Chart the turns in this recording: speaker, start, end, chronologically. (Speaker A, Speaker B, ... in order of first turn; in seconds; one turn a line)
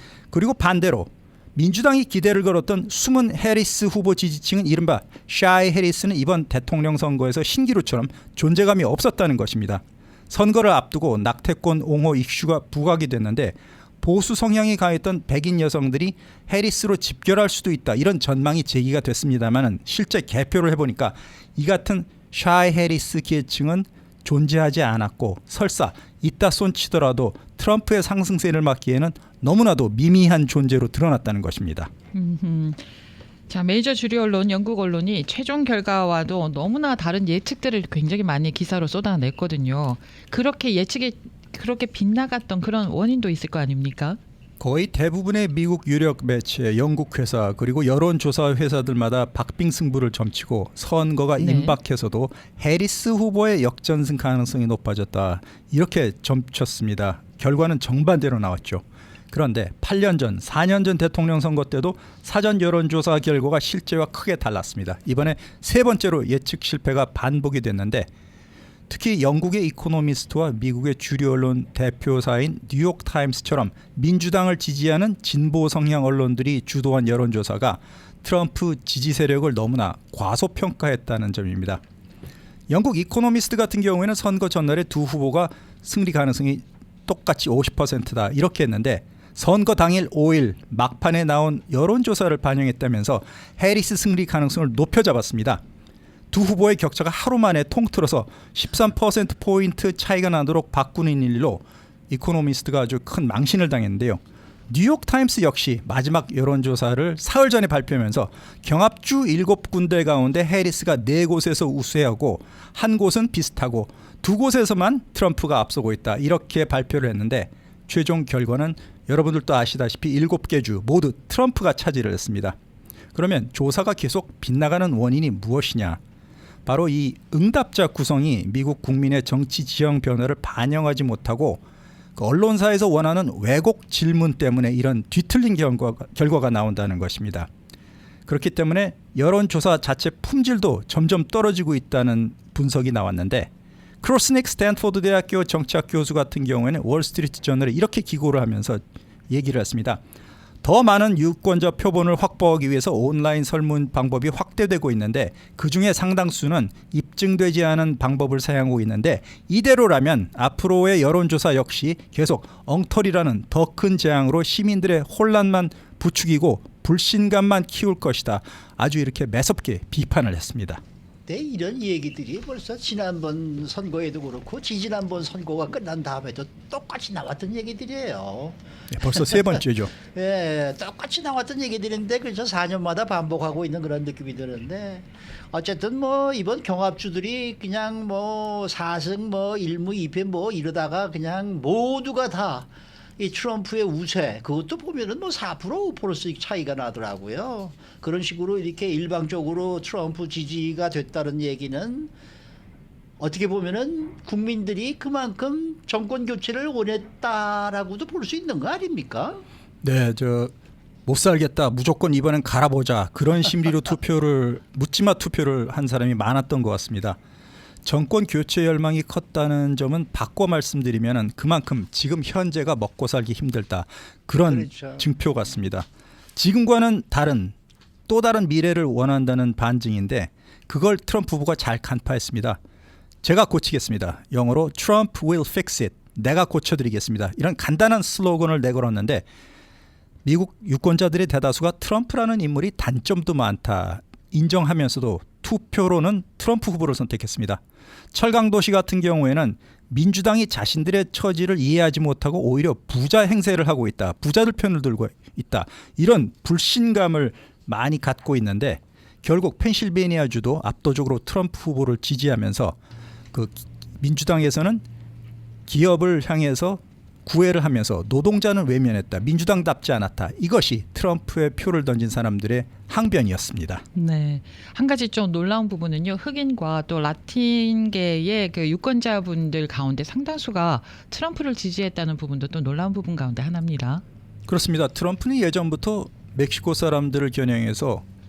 Speaker A: 0.3-31.9
Speaker B: 32.1-32.8
Speaker B: 33.5-44.2
Speaker A: 44.6-68.1
Speaker B: 51.4-51.8
Speaker A: 68.9-81.8
Speaker A: 82.7-95.6
Speaker A: 96.3-122.6
Speaker A: 123.1-126.0
Speaker A: 126.7-131.6
Speaker A: 132.2-137.5
Speaker A: 138.3-143.5
Speaker A: 144.0-150.0
Speaker A: 150.6-170.8
Speaker C: 171.3-178.6
Speaker A: 178.9-179.9
Speaker C: 179.2-202.1
Speaker C: 203.2-209.4
Speaker A: 209.8-210.5
Speaker A: 211.1-217.2
Speaker A: 217.8-227.6
Speaker C: 224.5-225.1
Speaker A: 228.1-232.6
Speaker A: 233.2-239.2
Speaker A: 240.2-247.6
Speaker A: 248.1-262.8
Speaker A: 263.3-264.8
Speaker A: 265.7-273.8
Speaker B: 273.9-284.0
Speaker A: 284.5-288.0